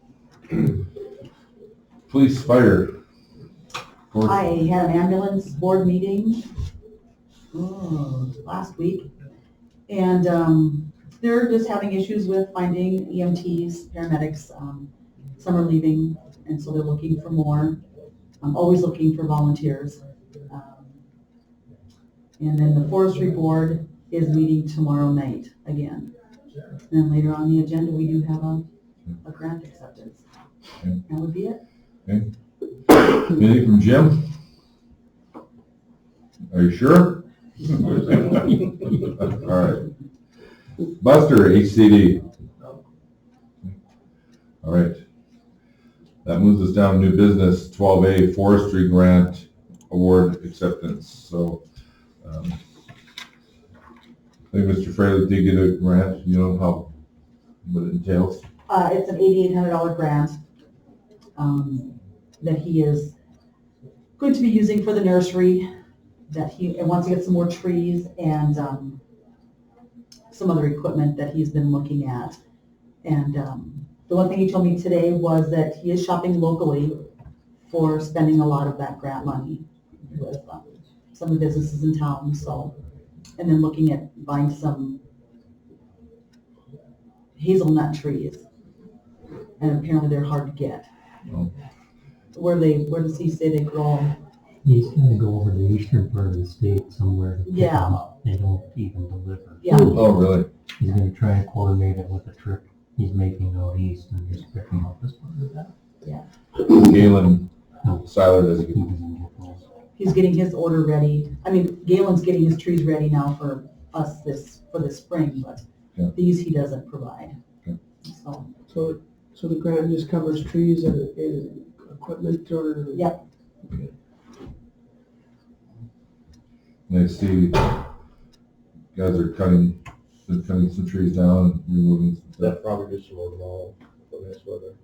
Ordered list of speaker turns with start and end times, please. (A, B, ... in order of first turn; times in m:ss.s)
0:00.5-0:00.8 A
0:02.1-0:03.0 A
0:04.1-0:04.4 A
0:04.2-0:06.5 B
0:07.5-0:09.1 B
0:09.9-0:17.8 B
0:18.4-0:21.0 B
0:22.4-0:26.1 B
0:26.9-0:28.6 B
0:29.2-0:30.2 B
0:31.1-0:31.6 B
0:32.0-0:32.3 A
0:32.9-0:34.3 A
0:36.5-0:39.9 A
0:41.0-0:42.2 A
0:44.6-0:45.0 A
0:46.2-0:51.6 A
0:52.2-0:52.6 A
0:54.5-0:56.9 A
0:57.6-0:58.4 A
0:58.7-1:00.4 B
1:01.4-1:03.1 B
1:04.2-1:05.7 B
1:06.3-1:09.0 B
1:10.3-1:12.4 B
1:13.0-1:17.0 B
1:17.6-1:22.7 B
1:23.4-1:25.0 B
1:27.4-1:28.4 B
1:29.6-1:30.9 B
1:31.3-1:31.5 A
1:32.3-1:34.2 B
1:34.6-1:40.1 C
1:37.4-1:38.0 B
1:39.6-1:40.0 B
1:39.8-1:40.5 A
1:40.8-1:45.7 C
1:46.6-1:47.5 A
1:47.8-1:49.6 C
1:48.0-1:48.8 A
1:50.0-1:57.4 B
1:58.0-1:58.6 B
1:58.7-2:03.1 D
2:02.9-2:03.2 B
2:06.9-2:07.8 A
2:08.9-2:12.6 A
2:12.4-2:14.8 E